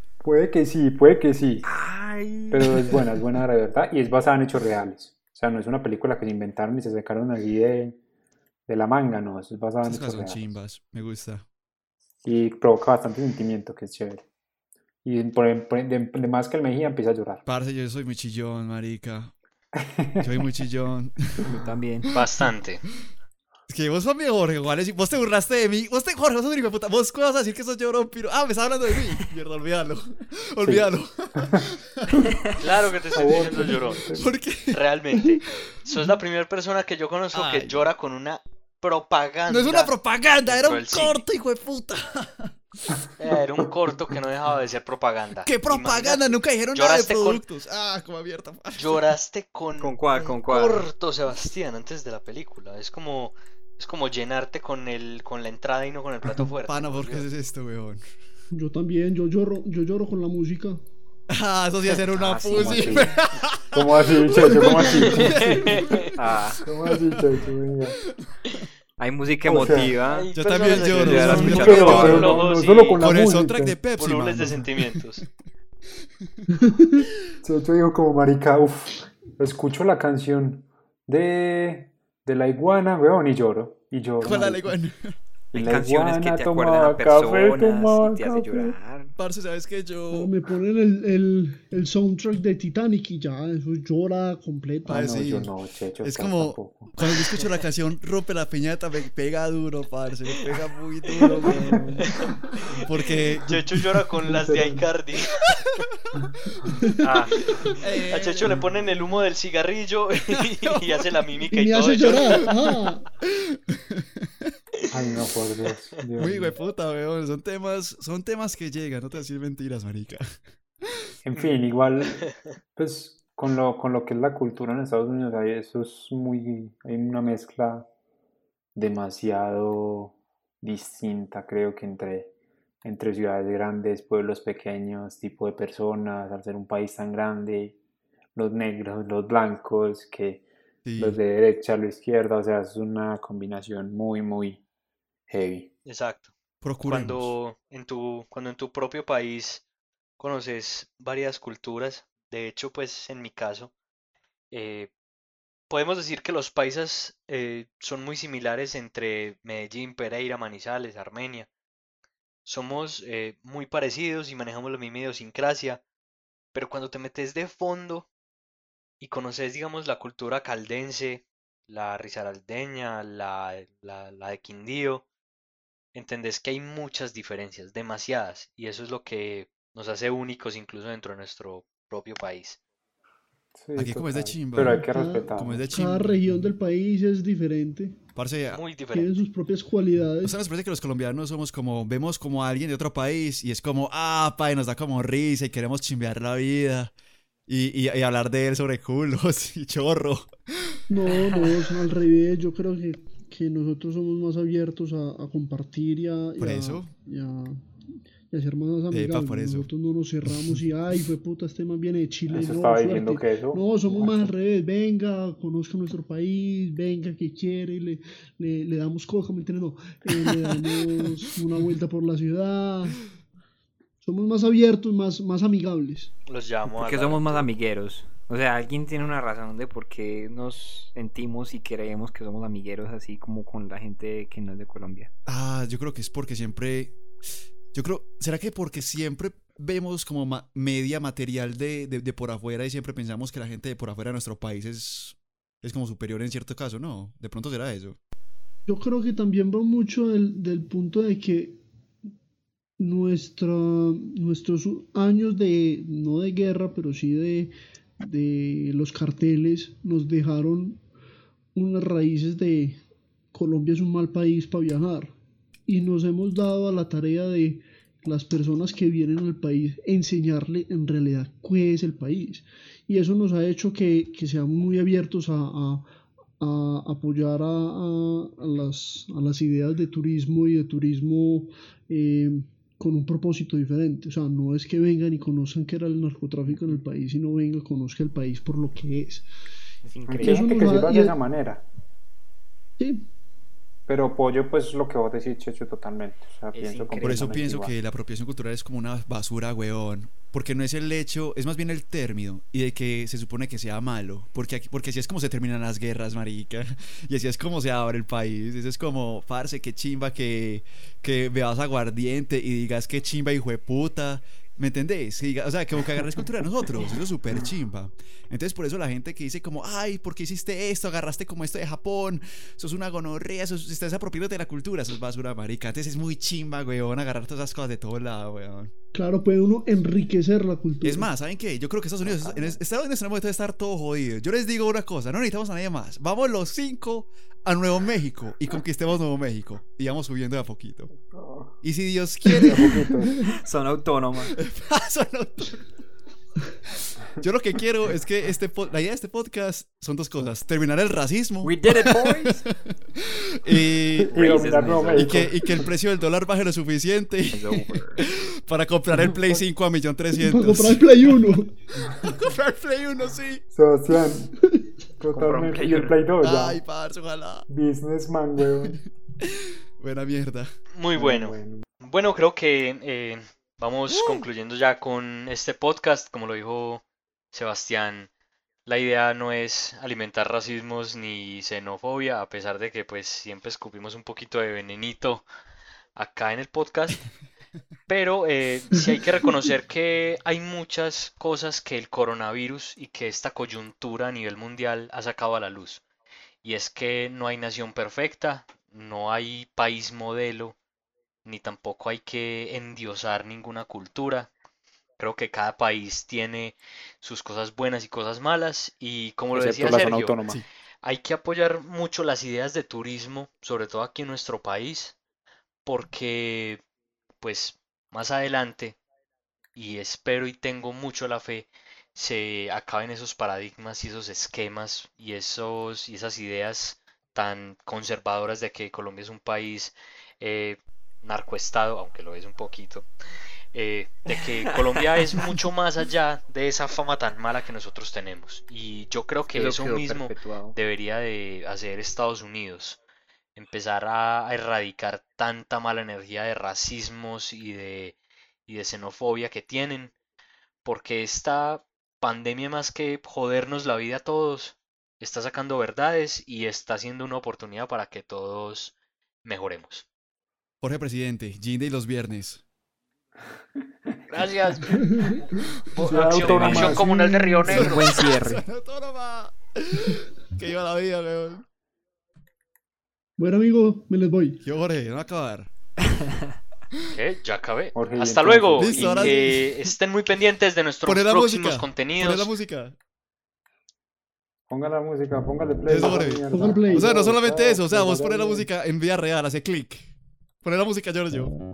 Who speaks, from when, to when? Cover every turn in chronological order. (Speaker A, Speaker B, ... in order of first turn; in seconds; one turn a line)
Speaker A: 0.2-1.6
Speaker B: 1.6-2.7
Speaker A: 2.5-8.0
Speaker A: 8.7-10.4
Speaker C: 9.8-11.4
Speaker A: 12.2-14.2
Speaker A: 15.0-17.4
Speaker C: 17.4-19.3
Speaker A: 19.8-20.4
Speaker C: 20.2-21.6
Speaker B: 21.4-22.1
Speaker D: 22.1-22.8
Speaker C: 23.7-32.6
Speaker D: 32.5-34.1
Speaker A: 33.1-34.3
Speaker C: 34.1-34.8
Speaker D: 34.7-39.9
Speaker C: 37.3-37.8
Speaker C: 39.5-43.0
Speaker D: 40.5-41.2
Speaker D: 43.2-47.4
Speaker C: 45.4-49.1
Speaker D: 48.8-57.3
Speaker B: 49.8-50.9
Speaker C: 56.6-58.1
Speaker E: 58.5-60.8
Speaker C: 61.3-67.2
Speaker B: 62.1-63.1
Speaker A: 62.7-63.1
Speaker A: 63.7-66.1
Speaker D: 64.8-66.1
Speaker B: 66.1-66.6
Speaker A: 66.6-68.0
Speaker B: 69.0-72.3
Speaker A: 69.4-69.9
Speaker D: 70.1-73.0
Speaker C: 70.3-72.4
Speaker A: 71.1-73.8
Speaker C: 73.0-75.2
Speaker D: 74.0-75.2
Speaker E: 76.6-76.9
Speaker A: 77.4-84.8
Speaker C: 84.2-85.2
Speaker A: 85.5-88.8
Speaker B: 85.5-89.1
Speaker C: 89.2-90.3
Speaker E: 90.1-95.1
Speaker C: 94.9-95.5
Speaker A: 94.9-96.9
Speaker C: 96.0-102.0
Speaker D: 101.1-101.4
Speaker E: 101.2-102.3
Speaker D: 102.0-105.8
Speaker C: 102.7-103.9
Speaker E: 104.2-104.8
Speaker C: 105.4-106.7
Speaker E: 106.6-107.1
Speaker D: 107.0-112.7
Speaker B: 107.0-107.3
Speaker C: 107.6-108.6
Speaker C: 110.3-111.2
Speaker E: 111.5-113.0
Speaker C: 113.2-114.5
Speaker A: 114.9-116.5
Speaker C: 116.2-120.4
Speaker A: 121.2-127.9
Speaker A: 128.7-137.8
Speaker A: 138.3-140.4
Speaker C: 140.8-141.2
Speaker A: 141.0-144.6
Speaker A: 145.3-145.7
Speaker D: 145.8-146.3
Speaker C: 146.6-147.3
Speaker D: 146.8-149.6
Speaker D: 150.2-153.7
Speaker D: 154.5-154.9
Speaker D: 155.7-161.5
Speaker D: 162.4-165.8
Speaker D: 166.5-168.1
Speaker D: 169.0-175.1
Speaker D: 175.9-182.6
Speaker A: 183.5-185.7
Speaker C: 183.8-186.5
Speaker E: 184.7-188.0
Speaker C: 188.1-188.6
Speaker D: 188.5-189.2
Speaker E: 188.9-190.4
Speaker C: 190.2-196.9
Speaker C: 197.5-201.4
Speaker E: 200.9-207.6
Speaker C: 206.4-206.9
Speaker E: 208.3-223.0
Speaker C: 208.9-209.7
Speaker C: 210.3-210.6
Speaker A: 212.3-214.3
Speaker E: 224.0-226.1
Speaker D: 226.3-227.5
Speaker B: 226.7-235.1
Speaker C: 235.2-237.0
Speaker C: 237.7-248.0
Speaker E: 248.7-251.6
Speaker E: 252.8-260.8
Speaker E: 261.5-262.8
Speaker E: 263.3-265.1
Speaker E: 265.7-275.8
Speaker E: 276.4-289.3
Speaker B: 289.8-290.8
Speaker A: 290.1-291.6
Speaker E: 290.2-291.1
Speaker E: 292.8-293.0
Speaker A: 293.9-297.7
Speaker B: 296.5-297.4
Speaker C: 297.0-328.7
Speaker E: 328.9-331.1
Speaker C: 330.8-340.9
Speaker A: 332.0-332.6
Speaker A: 341.1-341.4
Speaker C: 341.6-342.9
Speaker A: 342.3-343.2
Speaker B: 343.3-344.3
Speaker C: 344.4-345.6
Speaker C: 346.8-361.3
Speaker B: 351.4-352.4
Speaker A: 354.0-355.4
Speaker B: 354.1-355.2
Speaker B: 357.3-358.0
Speaker A: 359.0-359.4
Speaker E: 360.1-361.6
Speaker C: 361.9-363.4
Speaker A: 361.9-362.2
Speaker A: 363.5-364.3
Speaker A: 365.0-366.6
Speaker B: 365.1-366.0
Speaker C: 366.2-367.5
Speaker A: 367.5-368.8
Speaker C: 368.7-370.5
Speaker D: 370.7-378.1
Speaker A: 370.9-371.6
Speaker C: 373.9-374.3
Speaker D: 378.6-385.2
Speaker D: 385.9-387.0
Speaker D: 387.9-395.8
Speaker D: 396.4-400.6
Speaker D: 401.2-404.3
Speaker D: 405.0-410.2
Speaker A: 409.3-410.4
Speaker D: 410.8-415.0
Speaker D: 415.6-416.6
Speaker D: 417.2-418.8
Speaker D: 419.5-432.9
Speaker D: 433.5-442.8
Speaker B: 439.3-440.6
Speaker D: 443.4-447.9
Speaker D: 448.5-449.9
Speaker D: 450.6-459.9
Speaker C: 460.6-462.4
Speaker D: 464.1-468.2
Speaker E: 464.6-465.3
Speaker A: 465.8-468.4
Speaker C: 466.1-466.8
Speaker C: 467.4-471.4
Speaker E: 473.2-474.4
Speaker C: 474.4-476.2
Speaker D: 476.9-482.3
Speaker A: 477.7-479.1
Speaker C: 478.6-479.6
Speaker C: 480.8-482.7
Speaker A: 484.5-488.5
Speaker C: 485.7-491.4
Speaker E: 486.3-487.0